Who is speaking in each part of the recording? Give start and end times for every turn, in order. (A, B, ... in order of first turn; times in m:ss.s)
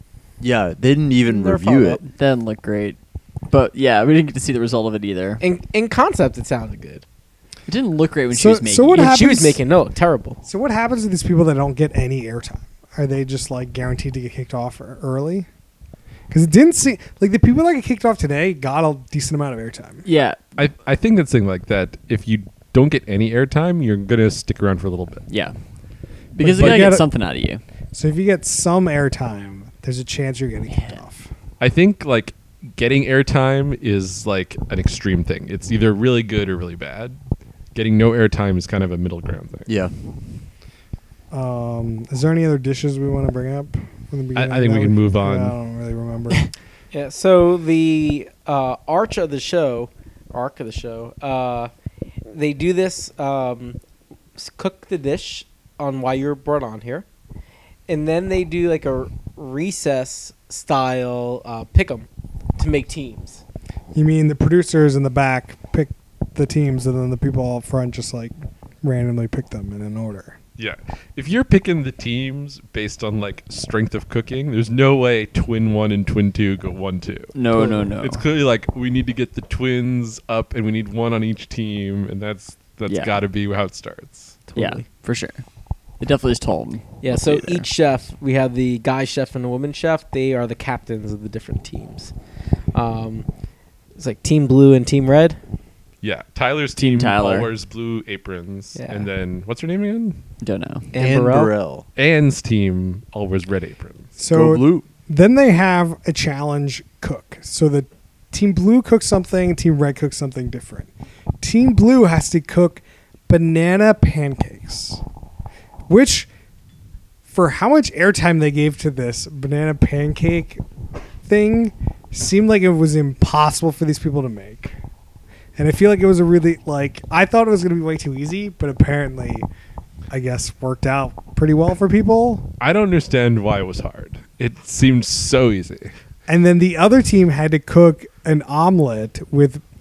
0:00.4-0:02.0 A
0:01.3-0:02.1 B
0:02.1-0:03.0 C
0:03.5-0:05.4 C
0:05.4-0:07.0 B
0:07.7-0:09.2 C
0:08.3-0:09.6 D
0:08.9-0:10.4 B
0:10.4-0:15.5 D
0:16.3-0:20.0 D
0:20.0-0:20.4 C
0:20.6-0:25.2 E
0:25.3-0:25.6 C
0:26.3-0:27.6 C
0:26.4-0:27.1 D
0:26.6-0:26.9 E
0:27.9-0:31.3 D
0:30.7-0:31.0 C
0:31.6-0:37.2 E
0:37.7-0:39.7 E
0:39.7-0:39.9 A
0:41.3-0:46.5 D
0:44.4-0:45.6 E
0:46.9-0:51.7 B
0:52.3-0:53.8 B
0:54.4-0:57.1 B
0:57.9-1:03.4 B
1:03.9-1:10.4 D
1:10.6-1:17.3 E
1:17.3-1:18.2 C
1:17.6-1:17.8 B
1:18.0-1:24.4 E
1:22.9-1:23.2 C
1:24.5-1:24.8 B
1:24.6-1:25.4 C
1:26.0-1:27.6 C
1:27.0-1:32.1 B
1:32.7-1:33.3 B
1:34.0-1:35.4 B
1:36.0-1:40.2 E
1:36.8-1:37.5 C
1:38.8-1:39.1 B
1:40.4-1:40.9 C
1:40.9-1:41.5 B
1:41.0-1:41.9 A
1:42.0-1:44.1 E
1:44.2-1:50.9 D
1:44.3-1:44.8 A
1:51.4-1:55.0 D
1:55.9-1:56.3 D
1:57.3-2:00.6 D
2:01.2-2:04.8 D
2:05.6-2:09.5 D
2:10.1-2:12.5 D
2:12.6-2:15.9 E
2:16.3-2:19.6 D